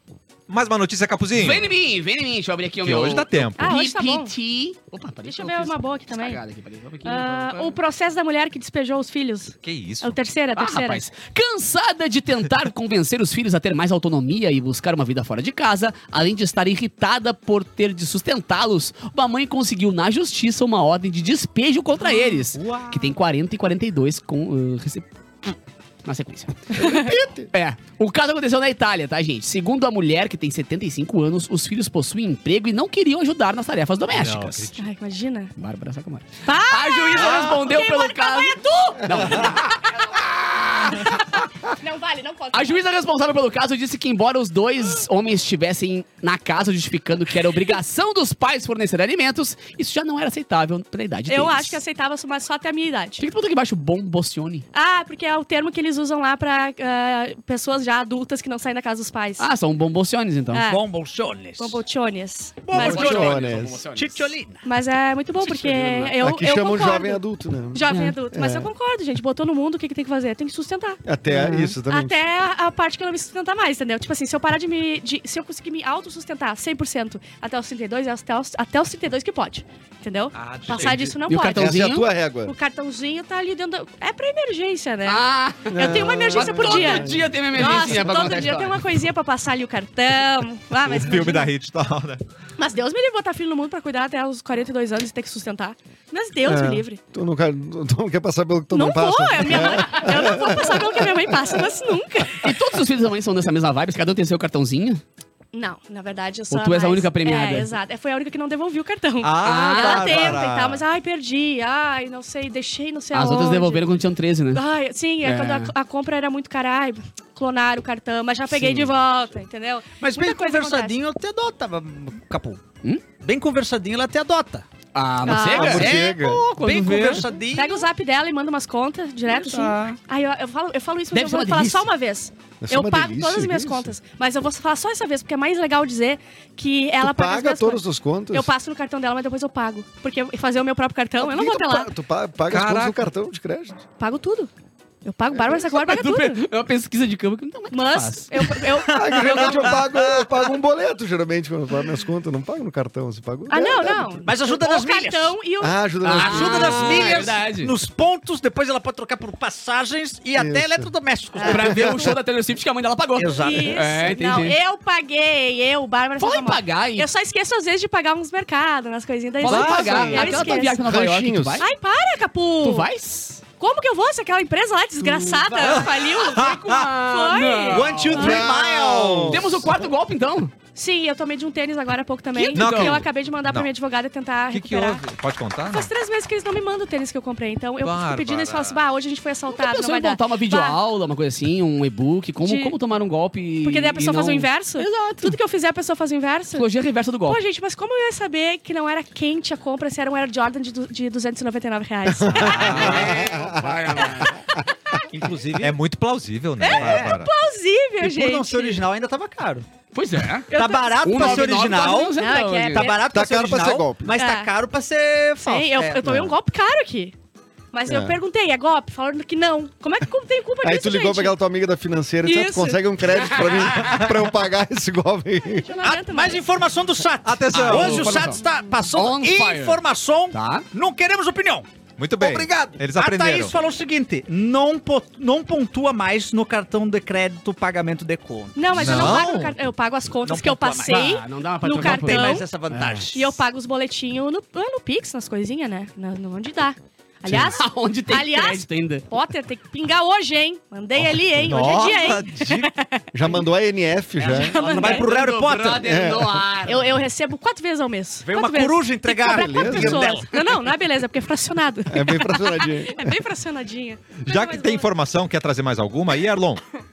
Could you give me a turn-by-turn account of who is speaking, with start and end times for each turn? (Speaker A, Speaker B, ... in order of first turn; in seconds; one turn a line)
Speaker A: 0.5-1.7
Speaker B: 1.4-7.8
Speaker A: 2.8-3.7
Speaker C: 3.6-4.3
Speaker C: 5.3-6.4
Speaker C: 7.0-11.1
Speaker A: 9.6-10.2
Speaker B: 10.6-34.7
Speaker D: 22.6-23.1
Speaker E: 26.8-27.5
Speaker A: 34.1-34.8
Speaker C: 34.8-35.5
Speaker B: 35.6-41.2
Speaker C: 36.5-40.2
Speaker C: 41.0-42.8
Speaker B: 42.5-51.8
Speaker C: 51.3-53.2
Speaker B: 53.2-54.6
Speaker C: 54.7-59.5
Speaker B: 59.4-60.6
Speaker C: 60.5-60.8
Speaker D: 60.7-61.8
Speaker C: 61.6-63.2
Speaker D: 62.6-64.7
Speaker B: 62.7-64.3
Speaker E: 62.8-63.8
Speaker C: 64.6-71.0
Speaker B: 65.4-66.1
Speaker E: 66.2-68.7
Speaker B: 67.9-68.1
Speaker E: 71.0-72.2
Speaker B: 71.3-71.8
Speaker C: 71.9-81.8
Speaker A: 80.3-81.2
Speaker B: 80.9-82.1
Speaker E: 81.6-82.6
Speaker C: 82.5-91.5
Speaker B: 85.0-88.8
Speaker E: 85.7-87.3
Speaker A: 90.8-92.2
Speaker C: 92.6-97.0
Speaker E: 96.5-101.7
Speaker C: 98.7-102.5
Speaker B: 102.4-105.0
Speaker C: 105.5-113.9
Speaker B: 106.5-107.7
Speaker A: 109.2-110.8
Speaker B: 109.4-110.4
Speaker B: 113.1-114.6
Speaker C: 114.5-121.0
Speaker B: 115.2-115.7
Speaker B: 118.5-118.9
Speaker D: 120.0-122.6
Speaker D: 123.2-124.7
Speaker B: 125.0-127.3
Speaker C: 125.3-125.9
Speaker E: 125.5-126.4
Speaker D: 125.5-127.9
Speaker C: 127.5-141.9
Speaker B: 129.3-129.9
Speaker B: 131.1-131.9
Speaker E: 132.6-133.9
Speaker E: 137.0-138.5
Speaker E: 141.2-143.8
Speaker A: 142.5-143.1
Speaker C: 144.0-144.5
Speaker C: 145.0-146.4
Speaker E: 145.3-145.6
Speaker B: 145.6-148.7
Speaker C: 147.7-149.8
Speaker E: 148.9-154.3
Speaker D: 149.1-150.3
Speaker C: 153.5-156.5
Speaker D: 154.2-155.4
Speaker E: 155.6-157.2
Speaker B: 156.0-157.8
Speaker D: 156.2-162.1
Speaker E: 160.4-160.9
Speaker C: 161.4-161.7
Speaker B: 161.4-164.6
Speaker E: 161.7-162.2
Speaker D: 163.2-163.9
Speaker C: 163.4-170.8
Speaker B: 166.2-167.1
Speaker B: 169.4-171.7
Speaker A: 169.5-170.3
Speaker E: 169.9-171.6
Speaker C: 171.6-172.9
Speaker B: 172.6-173.4
Speaker C: 173.6-178.5
Speaker B: 175.1-178.4
Speaker A: 175.6-176.9
Speaker D: 177.7-179.5
Speaker E: 178.1-179.7
Speaker B: 179.3-180.5
Speaker C: 180.8-185.1
Speaker B: 182.3-183.0
Speaker A: 182.6-183.7
Speaker A: 184.5-185.9
Speaker C: 185.7-190.8
Speaker A: 187.8-188.8
Speaker B: 189.5-195.4
Speaker C: 192.4-192.8
Speaker C: 193.6-196.7
Speaker B: 196.6-197.4
Speaker C: 197.3-203.0
Speaker E: 202.1-204.5
Speaker A: 202.3-203.3
Speaker D: 202.5-203.4
Speaker B: 202.9-204.4
Speaker D: 205.1-205.8
Speaker A: 205.6-207.3
Speaker C: 206.6-208.8
Speaker D: 206.6-207.2
Speaker D: 208.0-209.7
Speaker B: 209.9-212.9
Speaker D: 210.5-212.2
Speaker C: 210.5-211.6
Speaker C: 212.2-213.0
Speaker D: 212.7-216.2
Speaker E: 213.1-214.2
Speaker C: 214.2-214.5
Speaker C: 215.4-217.1
Speaker E: 216.1-216.3
Speaker C: 217.7-221.4
Speaker E: 217.9-218.2
Speaker E: 220.6-225.8
Speaker C: 222.2-223.4
Speaker C: 225.6-226.4
Speaker D: 225.8-231.7
Speaker A: 227.2-228.3
Speaker B: 227.5-229.8
Speaker B: 230.3-230.7
Speaker A: 232.0-233.5
Speaker D: 232.2-239.2
Speaker C: 238.6-242.5
Speaker A: 238.7-239.6
Speaker D: 240.2-241.2
Speaker B: 240.9-243.1
Speaker D: 241.8-243.4
Speaker C: 243.1-253.1
Speaker B: 247.3-249.1
Speaker A: 251.0-252.7
Speaker E: 253.1-254.6
Speaker D: 254.2-255.9
Speaker C: 254.2-255.1
Speaker B: 254.6-256.9
Speaker E: 255.8-256.4
Speaker C: 256.7-264.9
Speaker D: 258.2-260.4
Speaker E: 259.2-260.1
Speaker E: 261.9-263.1
Speaker A: 264.2-266.6